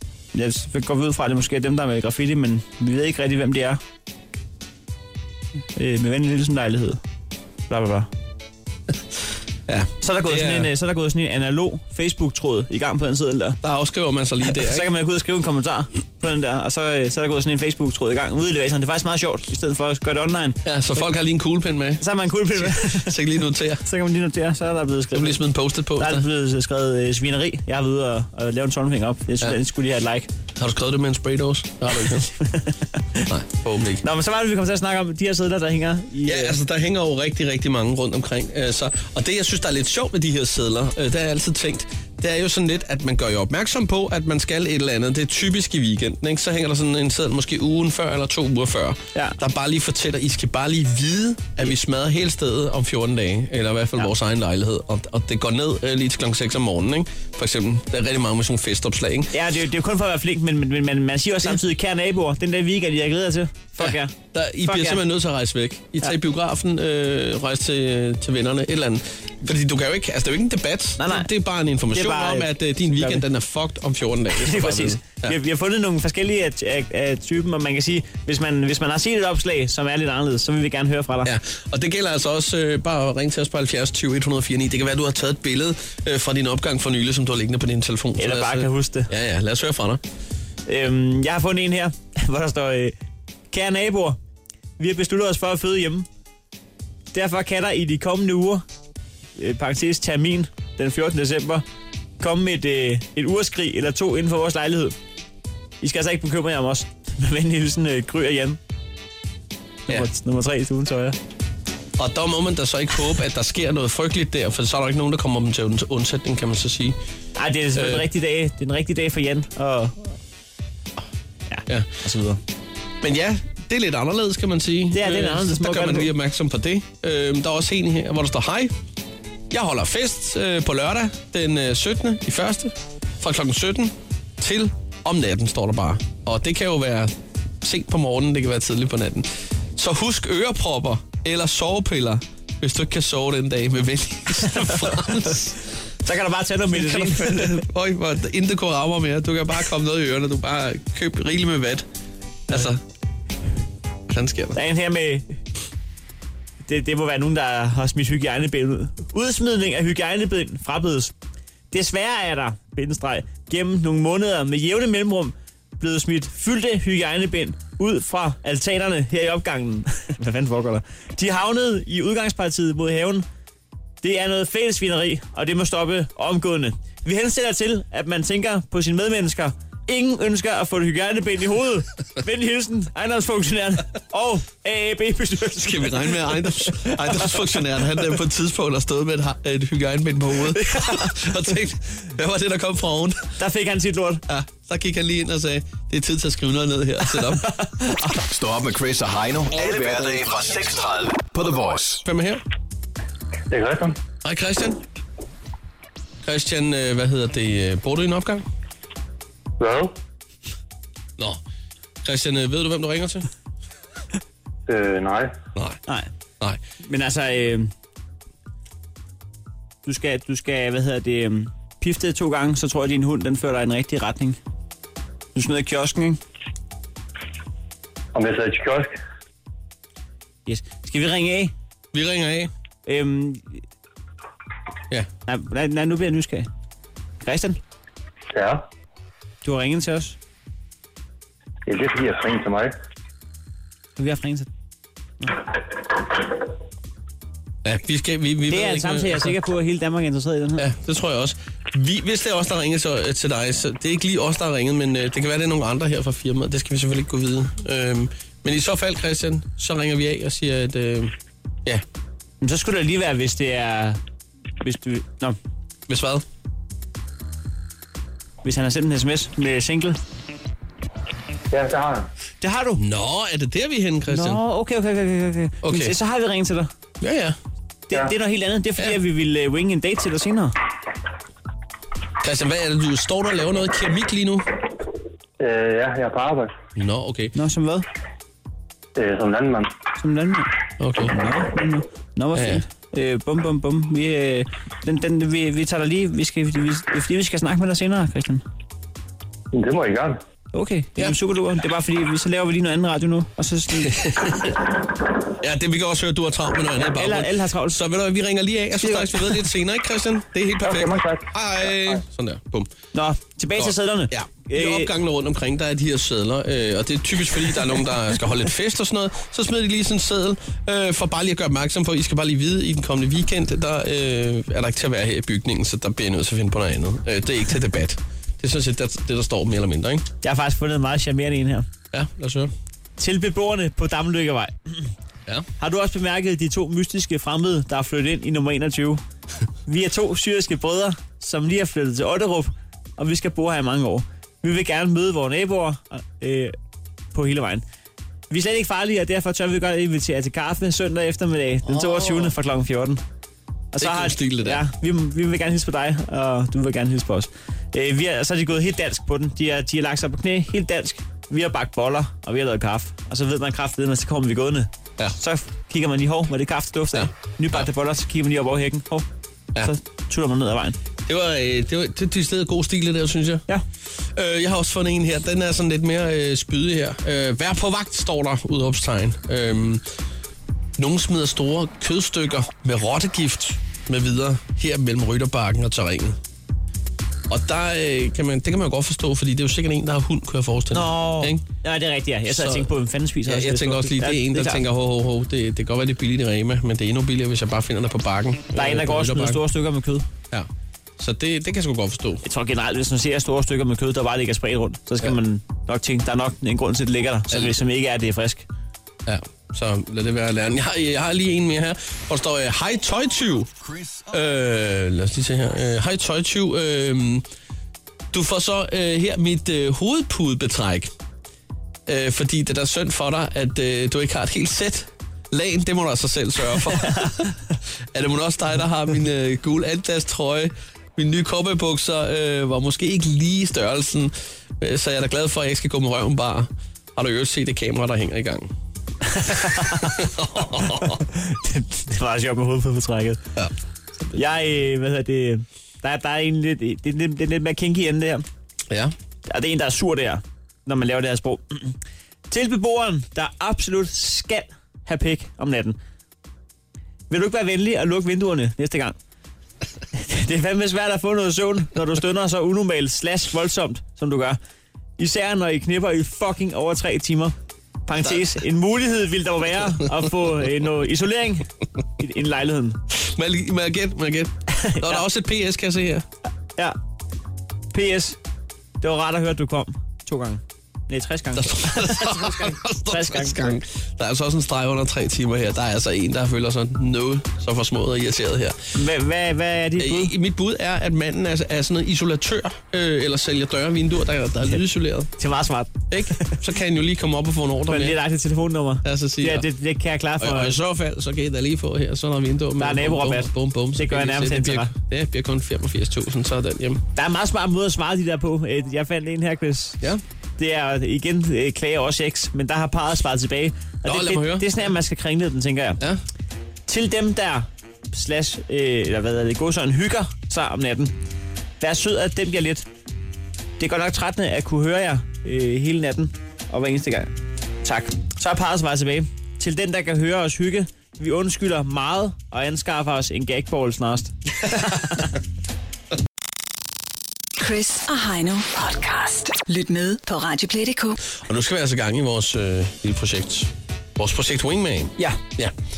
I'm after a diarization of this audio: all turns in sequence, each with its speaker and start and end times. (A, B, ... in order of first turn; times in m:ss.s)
0:00.3-0:03.8 A
0:05.8-0:07.0 A
0:07.7-0:08.1 A
0:09.7-0:10.7 B
0:10.0-0:13.6 A
0:13.6-0:14.9 B
0:14.5-0:20.6 A
0:20.6-0:22.0 B
0:22.0-0:23.2 A
0:22.6-0:23.8 B
0:23.8-0:25.4 A
0:25.1-0:26.3 B
0:26.0-0:30.3 A
0:30.6-0:32.3 B
0:32.2-0:33.2 A
0:33.3-0:34.0 B
0:34.0-0:36.6 A
0:36.2-0:59.3 B
0:59.3-1:05.0 A
1:03.8-1:15.4 B
1:11.0-1:11.3 A
1:11.9-1:13.2 A
1:14.4-1:21.3 A
1:21.2-1:30.0 B
1:28.2-1:29.1 A
1:30.7-1:33.0 A
1:33.5-1:34.2 A
1:34.8-1:36.1 A
1:37.1-1:38.6 A
1:39.4-1:41.6 A
1:42.2-1:45.0 A
1:45.8-1:48.6 A
1:49.9-1:51.2 A
1:52.0-1:57.0 B
1:57.4-2:00.2 A
1:57.7-1:58.1 B
2:01.5-2:02.4 A
2:03.0-2:08.7 B
2:04.9-2:06.1 A
2:09.5-2:25.6 B
2:26.0-2:27.6 A
2:26.8-2:31.8 B
2:32.5-2:32.8 B
2:34.1-2:34.6 B
2:34.6-2:35.4 A
2:36.7-2:41.1 A
2:41.7-2:53.2 A
2:54.0-3:07.3 A
3:05.6-3:13.3 B
3:10.6-3:11.1 A
3:13.4-3:14.2 A
3:14.3-3:17.5 B
3:17.1-3:18.1 A
3:18.2-3:22.0 C
3:19.7-3:20.2 B
3:22.0-3:22.4 B
3:23.5-3:24.0 D
3:24.2-3:24.8 B
3:26.2-3:28.4 B
3:29.6-3:29.9 D
3:32.0-3:33.3 B
3:34.7-3:35.3 D
3:36.8-3:37.7 A
3:39.8-3:44.4 A
3:45.4-3:46.2 A
3:48.1-3:49.0 D
3:50.5-3:51.5 A
3:51.9-3:52.5 B
3:52.9-3:53.6 A
3:55.3-3:56.5 A
3:57.2-3:57.6 A
3:58.3-3:58.6 D
3:59.4-4:00.2 A
4:01.7-4:02.7 D
4:04.0-4:04.5 A
4:07.6-4:09.3 B
4:08.5-4:10.6 A
4:10.6-4:21.1 B
4:22.4-4:24.0 A
4:24.6-4:25.4 A
4:25.9-4:26.2 B
4:28.4-4:30.0 A
4:31.5-4:32.1 D
4:32.4-4:32.8 A
4:32.8-4:34.4 B
4:34.1-4:36.7 A
4:35.6-4:35.9 B
4:37.0-4:37.4 B
4:37.9-4:40.5 A
4:42.2-4:44.5 B
4:45.4-4:46.5 D
4:46.8-4:47.3 B
4:47.4-4:47.8 A
4:49.0-4:49.7 D
4:50.0-4:50.5 A
4:50.8-4:51.1 B
4:51.1-4:58.4 A
4:52.4-4:52.6 B
4:59.5-5:00.2 D
5:00.5-5:04.0 A
5:03.9-5:04.6 B
5:05.4-5:12.7 B
5:06.8-5:07.8 A
5:08.8-5:09.4 A
5:10.6-5:11.3 D
5:12.9-5:14.9 A
5:13.6-5:30.1 B
5:30.2-5:31.7 A
5:31.9-5:32.5 B
5:33.0-5:34.9 A
5:35.6-5:39.0 A
5:39.7-5:46.6 A
5:47.1-5:47.6 A
5:48.3-5:53.0 A
5:51.7-5:52.3 B
5:53.7-6:09.1 A
5:53.8-5:54.6 B
6:07.0-6:07.7 B
6:09.6-6:10.8 A
6:11.1-6:13.4 B
6:14.0-6:19.8 B
6:20.8-6:26.2 B
6:27.3-6:31.4 B
6:30.7-6:34.6 A
6:32.3-6:32.7 B
6:33.2-6:39.4 B
6:38.6-6:40.1 A
6:40.3-6:42.2 B
6:42.2-6:48.4 A
6:49.1-6:53.5 B
6:53.7-6:54.0 C
6:54.1-6:57.2 B
6:58.1-7:00.9 B
7:01.9-7:07.4 B
7:07.9-7:18.5 B
7:19.1-7:20.0 A
7:20.0-7:21.0 B
7:20.6-7:23.2 A
7:24.1-7:28.2 A
7:29.3-7:31.8 A
7:32.3-7:35.8 A
7:37.1-7:39.0 A
7:39.9-7:44.4 A
7:45.0-7:47.4 A
7:47.9-7:51.5 A
7:52.0-7:52.8 A
7:52.9-7:56.1 B
7:54.6-7:55.0 A
7:57.7-7:58.2 A
7:58.8-8:03.6 A
8:01.4-8:08.6 B
8:08.7-8:10.1 A
8:09.8-8:15.1 B
8:15.2-8:16.4 A
8:15.9-8:18.0 B
8:17.7-8:20.6 A
8:18.8-8:19.4 B
8:20.2-8:26.8 B
8:22.6-8:24.7 A
8:27.0-8:29.8 A
8:30.4-8:35.8 A
8:33.9-8:34.5 B
8:36.7-8:41.0 A
8:41.6-8:42.6 A
8:43.6-8:47.1 A
8:47.6-8:55.1 A
8:57.4-9:01.0 E
9:01.2-9:05.5 B